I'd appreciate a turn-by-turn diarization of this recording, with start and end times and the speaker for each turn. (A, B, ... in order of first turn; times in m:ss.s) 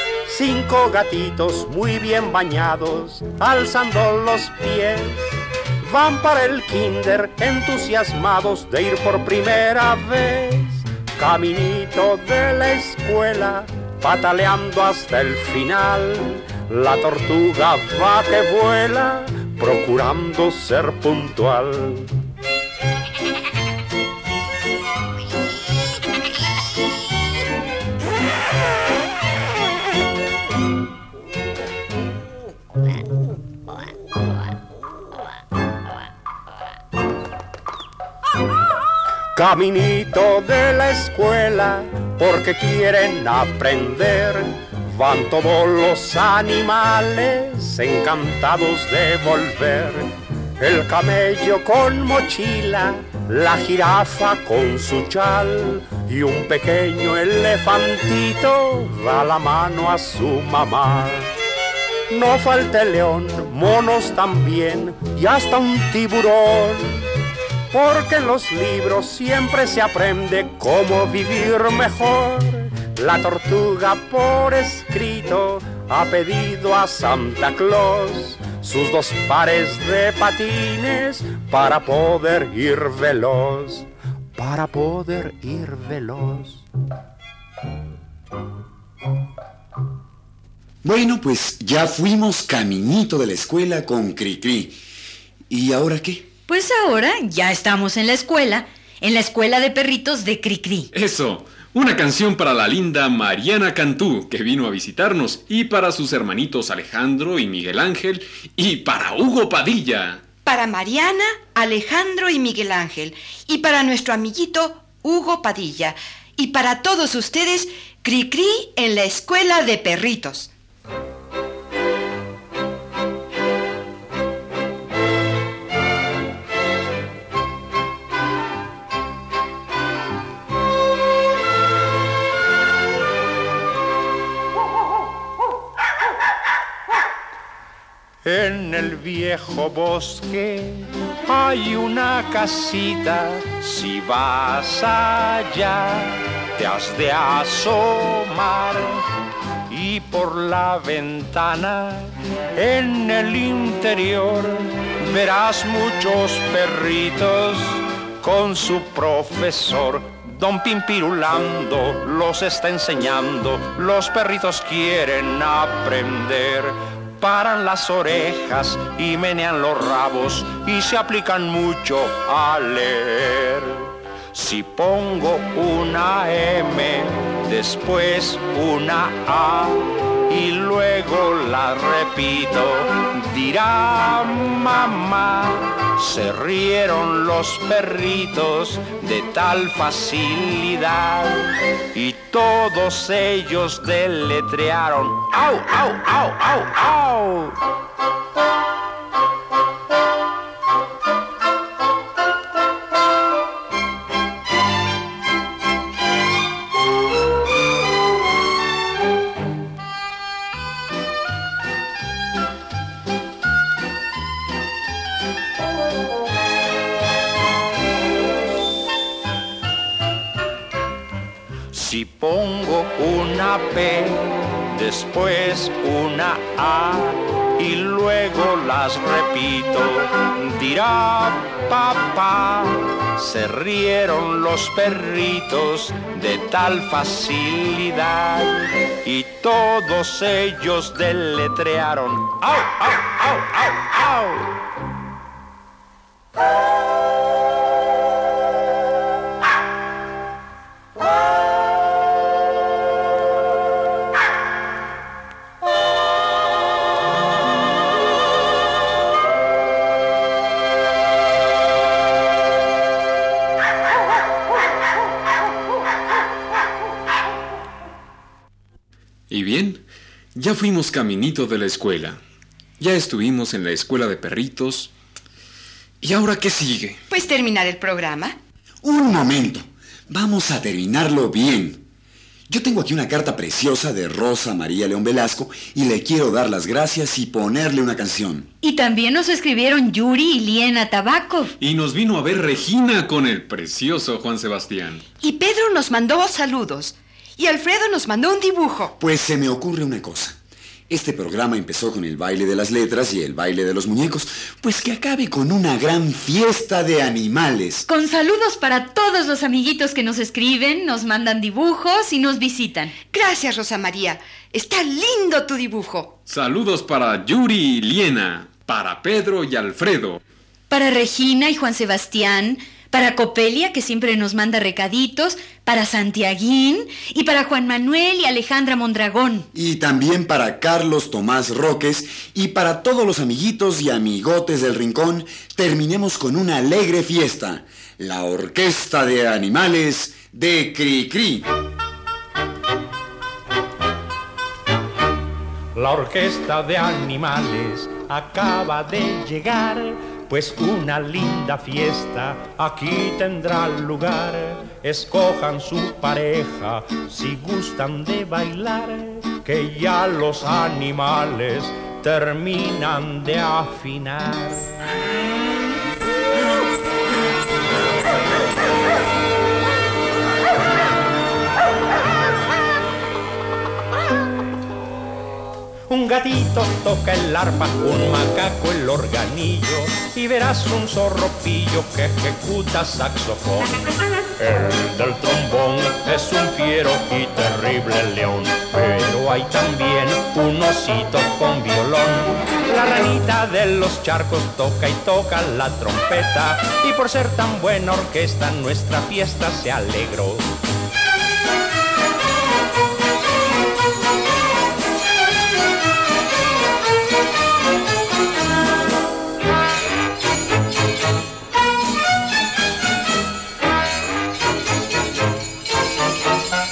0:00.3-0:22.1 A
0:39.4-0:50.1 A
0:50.6-1:01.3 A
1:02.1-1:07.1 A
1:07.7-1:26.6 A
1:30.8-1:34.8 B
1:35.5-1:36.3 B
1:36.5-1:40.9 C
1:40.9-1:50.2 D
1:50.4-2:00.5 E
2:18.2-2:29.1 A
2:29.7-3:17.6 A
3:41.7-4:04.5 A
4:29.3-4:29.8 D
4:30.4-4:32.2 D
4:32.8-4:34.9 D
4:36.0-4:37.0 D
4:37.1-4:38.4 E
4:38.8-4:41.8 B
4:42.5-4:48.5 B
4:48.6-4:51.5 C
4:51.6-4:55.0 D
4:55.2-4:59.0 E
4:59.0-5:00.4 B
5:00.9-5:07.9 B
5:07.9-5:13.0 C
5:13.1-5:16.2 E
5:16.3-5:20.2 D
5:20.7-5:29.5 C
5:29.5-5:41.5 B
5:45.8-6:04.7 A
6:15.9-6:23.8 A
6:24.4-6:40.5 A